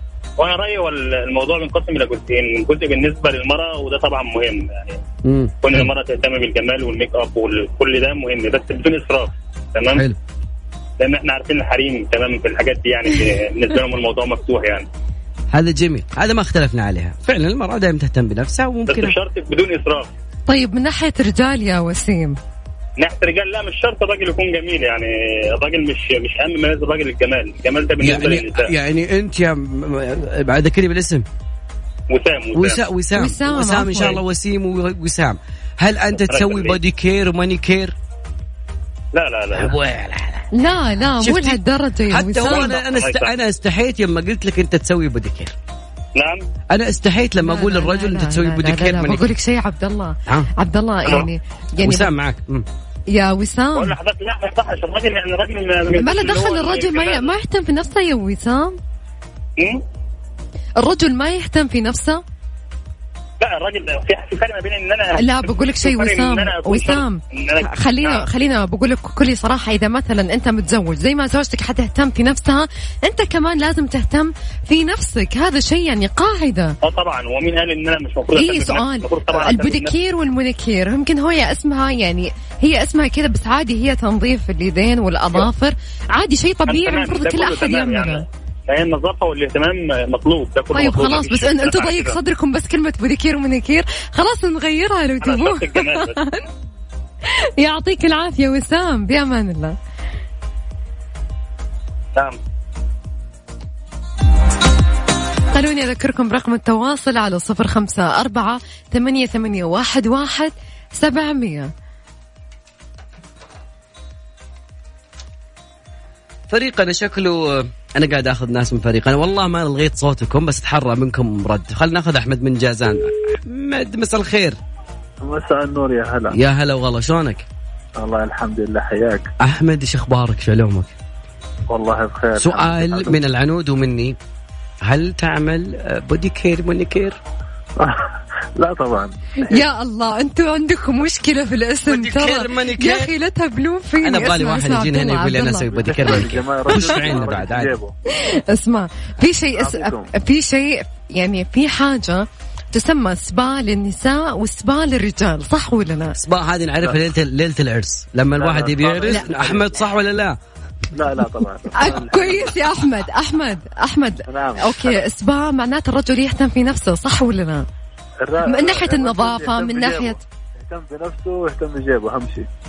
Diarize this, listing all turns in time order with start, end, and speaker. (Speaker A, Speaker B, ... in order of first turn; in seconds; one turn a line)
Speaker A: 0.4-5.0
Speaker B: 5.2-5.9
Speaker A: 5.6-10.0
Speaker A: 11.0-14.9
Speaker B: 15.5-19.1
Speaker A: 18.9-20.1
Speaker C: 20.5-22.4
Speaker A: 23.0-28.7
Speaker B: 28.0-31.3
Speaker A: 32.1-32.8
Speaker B: 32.5-38.0
Speaker C: 33.2-34.2
Speaker A: 36.2-36.8
Speaker A: 39.1-39.7
Speaker B: 39.5-40.5
Speaker C: 40.5-42.8
Speaker B: 41.2-45.5
Speaker A: 42.5-43.3
Speaker A: 46.2-46.4
Speaker B: 46.7-49.3
Speaker C: 47.4-52.1
Speaker B: 51.8-52.7
Speaker C: 53.1-54.0
Speaker A: 53.8-57.3
Speaker C: 55.9-58.8
Speaker C: 60.8-62.2
Speaker A: 63.4-68.3
Speaker C: 65.2-76.8
Speaker A: 76.8-79.9
Speaker C: 78.3-88.2
Speaker A: 86.7-92.2
Speaker C: 90.7-96.5
Speaker A: 95.2-96.2
Speaker C: 97.2-99.8
Speaker C: 105.5-111.7
Speaker B: 116.5-124.6
Speaker D: 125.2-126.3
Speaker B: 126.3-127.5
Speaker D: 128.0-129.3
Speaker B: 129.4-130.9
Speaker D: 131.7-133.2
Speaker B: 132.4-134.2
Speaker B: 134.8-137.2
Speaker D: 137.8-139.6
Speaker C: 139.5-146.2
Speaker B: 141.9-143.1
Speaker B: 144.0-147.8
Speaker D: 145.8-147.9
Speaker C: 148.1-156.2
Speaker D: 149.6-150.1
Speaker B: 156.2-160.4
Speaker D: 158.4-159.8
Speaker D: 160.9-162.6
Speaker C: 161.7-167.7
Speaker D: 164.3-165.0
Speaker D: 168.2-172.5
Speaker C: 168.4-170.2